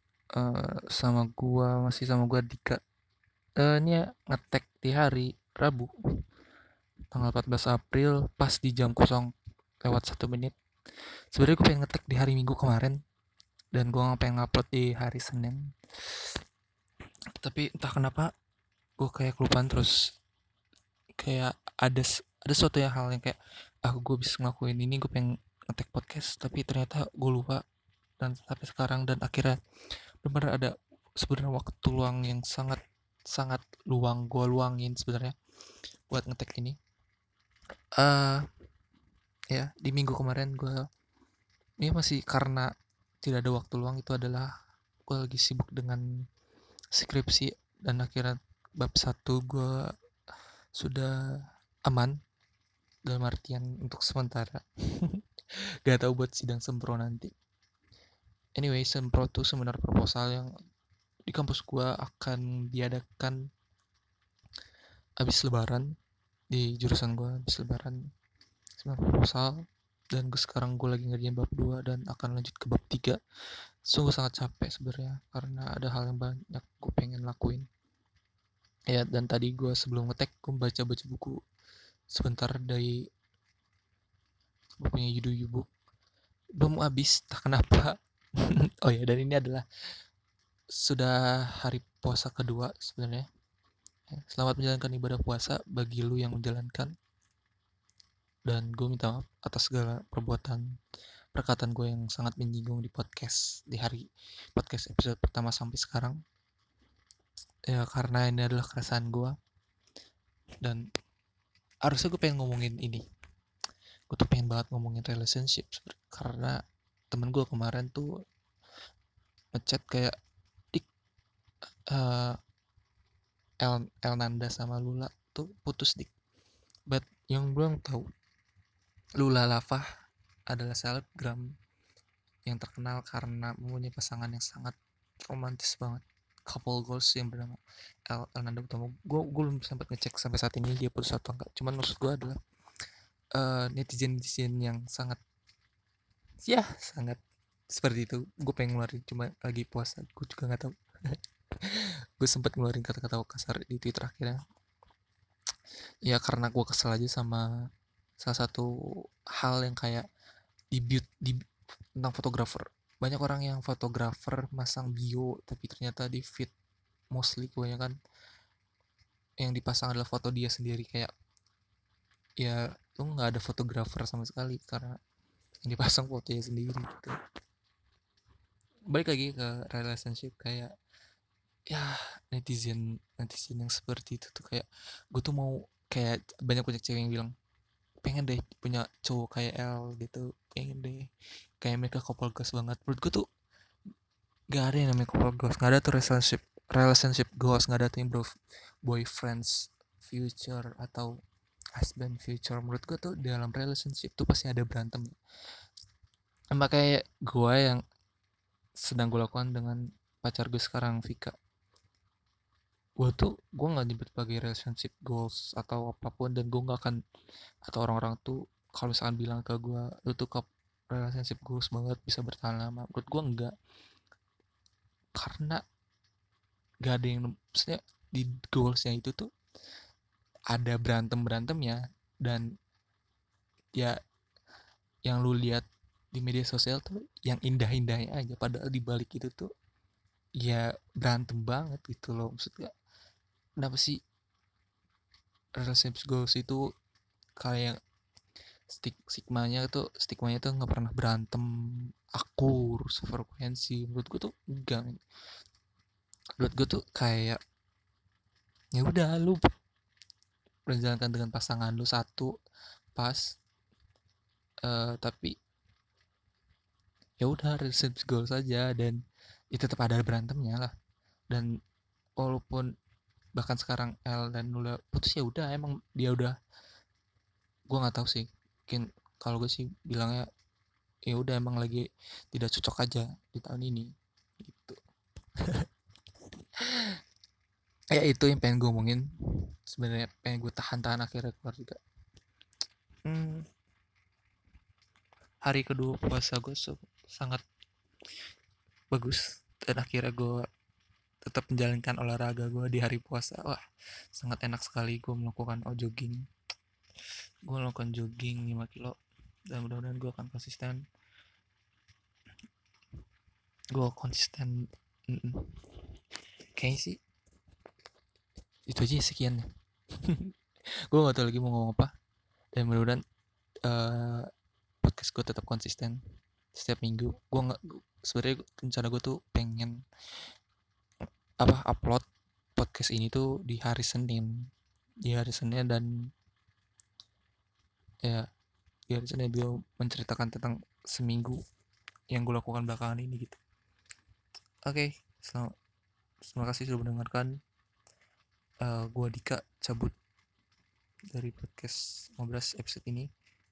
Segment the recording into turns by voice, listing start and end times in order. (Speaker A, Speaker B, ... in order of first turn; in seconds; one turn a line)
Speaker A: 0.3-2.8
Speaker A: 3.6-5.9
Speaker A: 7.1-9.3
Speaker A: 9.8-10.5
Speaker A: 11.3-13.0
Speaker A: 13.7-15.7
Speaker A: 17.4-18.3
Speaker A: 19.0-19.9
Speaker A: 21.2-27.6
Speaker A: 28.2-29.6
Speaker A: 30.2-32.8
Speaker A: 33.3-35.3
Speaker A: 36.1-36.8
Speaker A: 38.0-38.5
Speaker A: 39.5-40.8
Speaker A: 41.8-42.7
Speaker A: 43.2-44.5
Speaker A: 45.1-46.0
Speaker A: 46.9-49.8
Speaker A: 50.8-51.1
Speaker A: 51.9-52.2
Speaker A: 53.0-55.2
Speaker A: 55.9-57.3
Speaker A: 58.5-60.5
Speaker A: 61.3-63.4
Speaker A: 65.2-65.9
Speaker A: 66.5-68.0
Speaker A: 68.8-73.2
Speaker A: 73.9-77.7
Speaker A: 78.9-81.4
Speaker A: 82.1-83.0
Speaker A: 84.8-85.7
Speaker A: 86.6-89.6
Speaker A: 90.7-93.3
Speaker A: 94.1-96.9
Speaker A: 98.5-100.6
Speaker A: 101.3-106.2
Speaker A: 107.7-109.3
Speaker A: 111.8-113.0
Speaker A: 114.1-116.6
Speaker A: 117.1-118.1
Speaker A: 119.5-120.2
Speaker A: 121.9-122.4
Speaker A: 123.6-126.1
Speaker A: 126.9-128.1
Speaker A: 129.2-129.8
Speaker A: 130.5-131.5
Speaker A: 132.5-142.4
Speaker A: 143.3-145.2
Speaker A: 146.4-147.2
Speaker A: 147.7-154.4
Speaker A: 156.0-157.4
Speaker A: 158.2-158.7
Speaker A: 159.3-160.0
Speaker A: 160.7-161.4
Speaker A: 162.0-166.5
Speaker A: 167.1-167.9
Speaker A: 169.4-171.1
Speaker A: 172.4-175.0
Speaker A: 175.6-177.1
Speaker A: 178.9-180.7
Speaker A: 181.7-187.3
Speaker A: 188.0-191.0
Speaker A: 191.6-193.2
Speaker A: 194.5-198.3
Speaker A: 198.8-201.1
Speaker A: 201.8-205.1
Speaker A: 206.5-207.8
Speaker A: 208.8-211.3
Speaker A: 213.0-217.0
Speaker A: 217.7-223.5
Speaker A: 225.2-225.6
Speaker A: 226.8-229.3
Speaker A: 230.5-232.4
Speaker A: 235.0-239.5
Speaker A: 240.4-242.7
Speaker A: 243.6-244.0
Speaker A: 245.6-246.6
Speaker A: 247.4-247.8
Speaker A: 248.7-255.0
Speaker A: 256.4-257.4
Speaker A: 258.7-259.5
Speaker A: 260.7-262.3
Speaker A: 262.9-263.3
Speaker A: 264.6-265.3
Speaker A: 267.2-269.0
Speaker A: 269.5-270.7
Speaker A: 272.2-272.7
Speaker A: 273.4-276.3
Speaker A: 277.7-280.2
Speaker A: 281.1-283.9
Speaker A: 284.4-284.8
Speaker A: 285.4-285.6
Speaker A: 286.6-287.0
Speaker A: 287.9-289.0
Speaker A: 289.6-291.8
Speaker A: 293.0-293.4
Speaker A: 295.4-297.4
Speaker A: 298.9-300.4
Speaker A: 301.2-303.6
Speaker A: 304.1-306.2
Speaker A: 307.4-309.0
Speaker A: 309.5-310.8
Speaker A: 313.7-315.6
Speaker A: 316.5-317.0
Speaker A: 318.7-319.4
Speaker A: 320.0-320.3
Speaker A: 320.9-321.9
Speaker A: 322.6-323.0
Speaker A: 323.6-324.3
Speaker A: 324.8-326.0
Speaker A: 326.5-329.8
Speaker A: 331.4-332.0
Speaker A: 332.6-334.3
Speaker A: 335.1-335.9
Speaker A: 338.9-341.4
Speaker A: 342.1-343.4
Speaker A: 344.6-345.5
Speaker A: 346.3-347.3
Speaker A: 348.6-349.9
Speaker A: 351.1-353.1